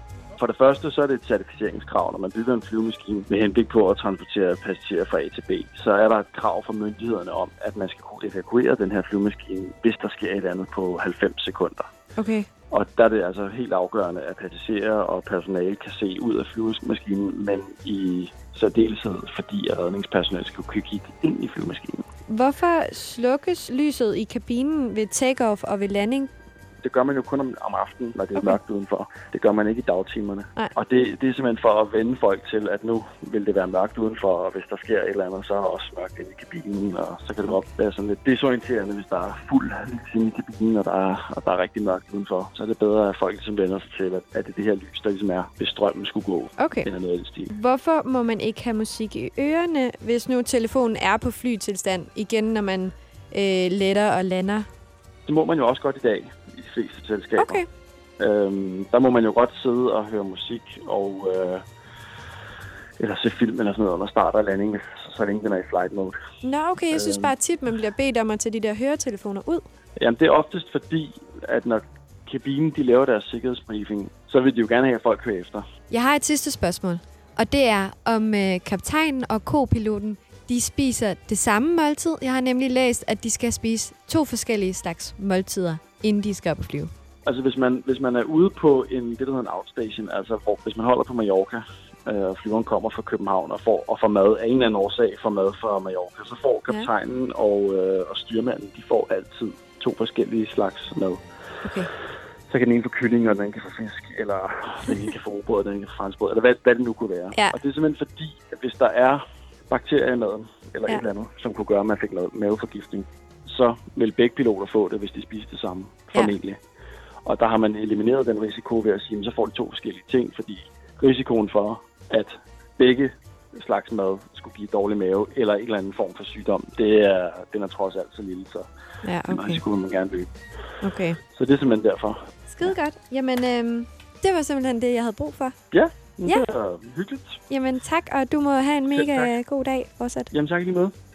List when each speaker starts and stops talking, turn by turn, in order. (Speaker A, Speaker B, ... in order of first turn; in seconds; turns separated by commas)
Speaker A: 0.4-11.9, Speaker B: 12.2-12.5, Speaker A: 12.7-22.1, Speaker B: 22.3-26.3, Speaker A: 26.8-47.5, Speaker B: 46.6-46.9, Speaker B: 47.5-54.7, Speaker A: 55.3-57.6, Speaker B: 57.4-57.7, Speaker A: 58.2-61.6, Speaker A: 63.0-66.2, Speaker B: 66.4-69.7, Speaker A: 66.9-67.3, Speaker A: 70.0-75.7, Speaker B: 75.9-86.9, Speaker A: 87.3-101.2, Speaker B: 101.6-101.9, Speaker A: 102.5-116.6, Speaker A: 117.3-128.7, Speaker B: 129.1-129.6, Speaker A: 129.3-130.3, Speaker B: 130.8-131.2, Speaker A: 131.3-132.3, Speaker B: 132.5-135.6, Speaker A: 135.7-137.4, Speaker B: 137.5-140.3, Speaker A: 138.9-139.3, Speaker A: 140.3-140.9